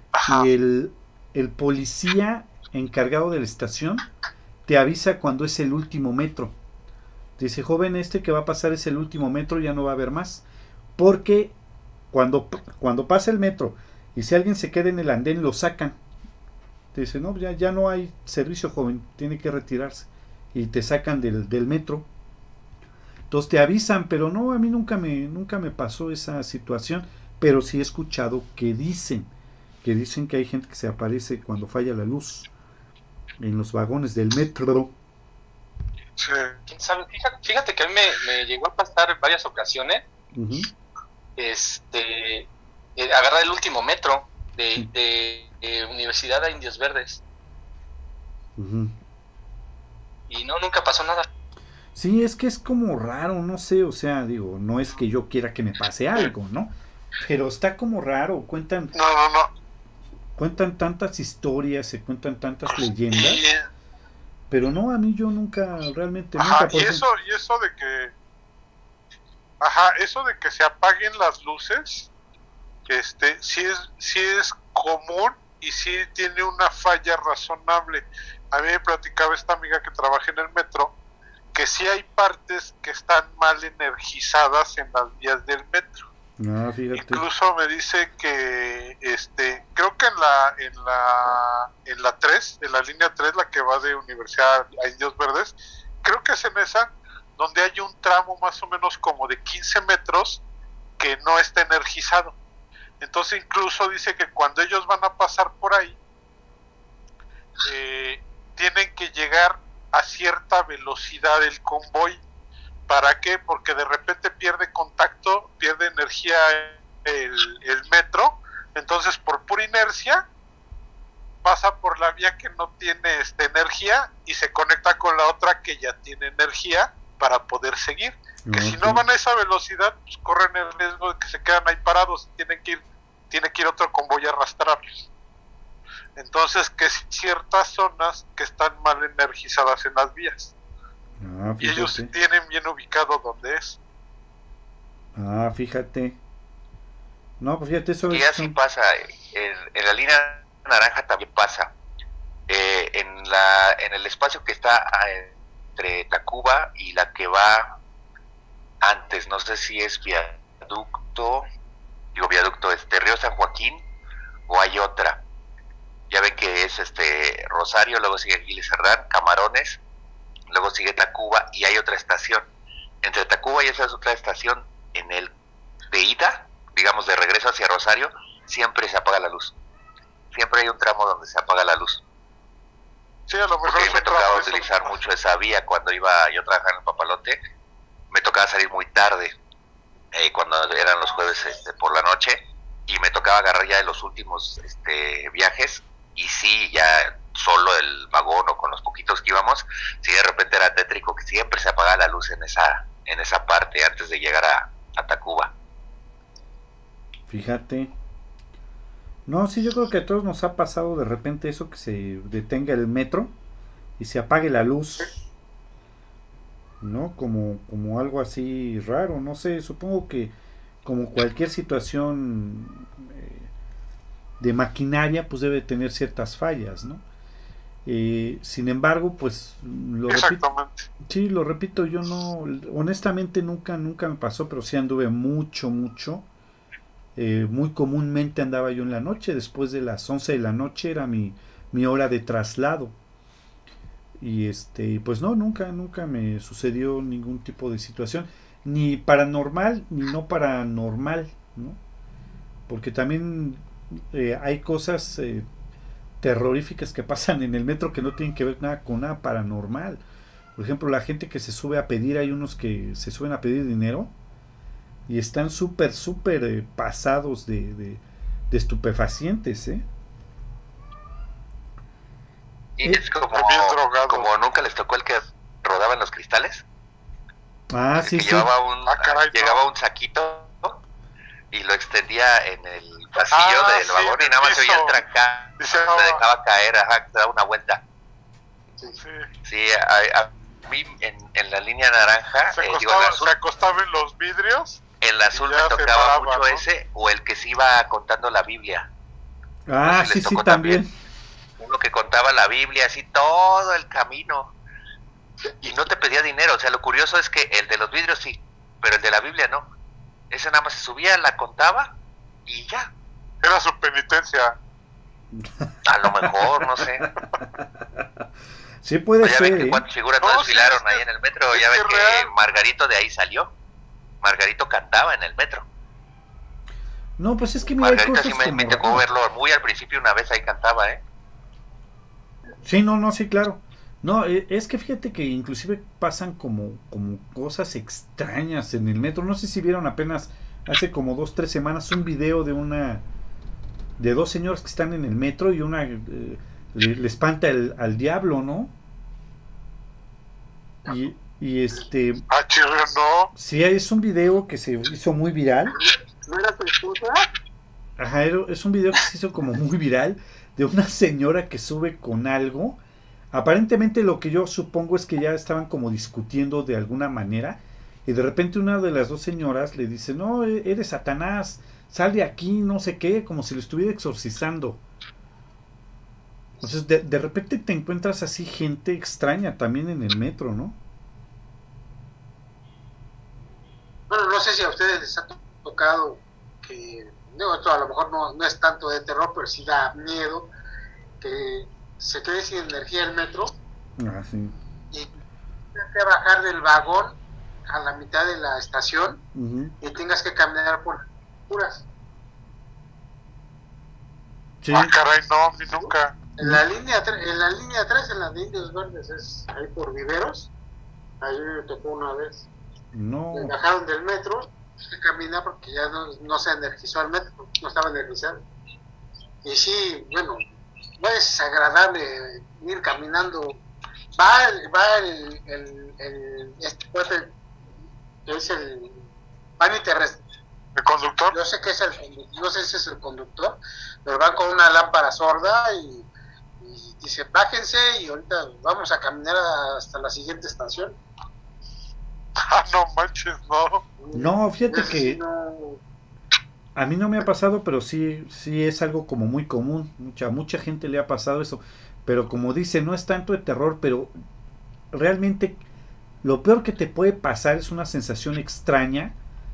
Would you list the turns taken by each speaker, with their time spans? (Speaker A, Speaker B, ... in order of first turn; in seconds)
Speaker A: 0.1-0.5, 36.2-36.5, 58.9-59.5, 63.1-63.6, 66.4-68.1, 69.6-72.1, 72.9-80.9, 81.5-86.0, 86.9-100.4, 101.0-102.3, 103.0-106.0, 107.6-112.2, 112.9-120.2, 121.4-135.1, 136.2-140.5, 141.6-143.8, 183.3-184.9, 230.1-230.9, 273.3-274.3, 278.9-279.6, 283.3-285.0, 285.6-286.2, 289.0-289.3, 292.5-294.8, 295.3-296.6, 313.4-314.6, 320.2-322.3, 352.3-353.3, 404.7-406.2, 430.8-431.4, 442.5-443.8
Speaker B: 0.2-4.0, 4.7-6.5, 7.4-10.4, 10.9-11.5, 12.1-16.0, 16.9-22.1, 23.3-29.3, 29.8-32.5, 33.4-34.9, 40.3-40.7, 48.5-48.9, 51.9-58.9, 60.4-63.4, 64.5-67.0, 86.4-87.2, 128.4-129.0, 141.2-142.1, 145.2-146.2, 147.4-148.5, 207.3-207.9, 209.2-213.3, 214.0-215.2, 216.8-220.3, 220.8-223.5, 224.4-227.0, 227.8-230.4, 231.0-236.2, 237.2-242.9, 244.2-251.8, 252.7-255.4, 256.2-260.0, 260.6-264.1, 265.1-269.8, 277.7-278.5, 299.7-300.9, 315.4-316.8, 317.5-318.0, 318.8-319.8, 327.2-329.0, 332.6-343.0, 344.0-348.7, 350.9-352.2, 353.4-355.8, 358.0-362.8, 363.3-374.8, 376.6-380.8, 394.0-394.6, 399.3-399.7, 404.6-404.9, 412.9-413.6, 444.1-445.2, 446.7-454.1, 454.9-455.6, 456.2-459.1
Speaker C: 36.7-40.0, 41.4-47.2, 50.3-51.3
Speaker D: 148.1-151.7, 152.5-157.8, 158.8-161.4, 162.1-163.8, 164.5-165.2, 166.1-169.8, 170.5-172.4, 173.0-175.3, 175.9-179.5, 180.3-182.0, 183.6-187.4, 188.1-189.3, 190.1-205.5, 272.8-276.6, 278.0-280.8, 281.5-287.8, 289.4-293.3, 295.0-298.9, 299.8-300.8, 301.6-304.5, 305.6-309.7, 310.3-311.9, 312.4-312.9, 315.8-317.1, 319.2-323.5, 324.2-325.6, 327.7-331.0
Speaker E: 355.7-357.3, 384.1-390.5, 391.2-393.6, 395.7-399.2, 399.8-401.8, 406.4-410.5, 411.2-412.5, 413.3-418.4, 419.4-420.4, 421.0-423.6, 424.2-427.3, 428.2-429.0, 429.6-430.2, 431.3-436.1, 436.6-441.0, 444.0-445.8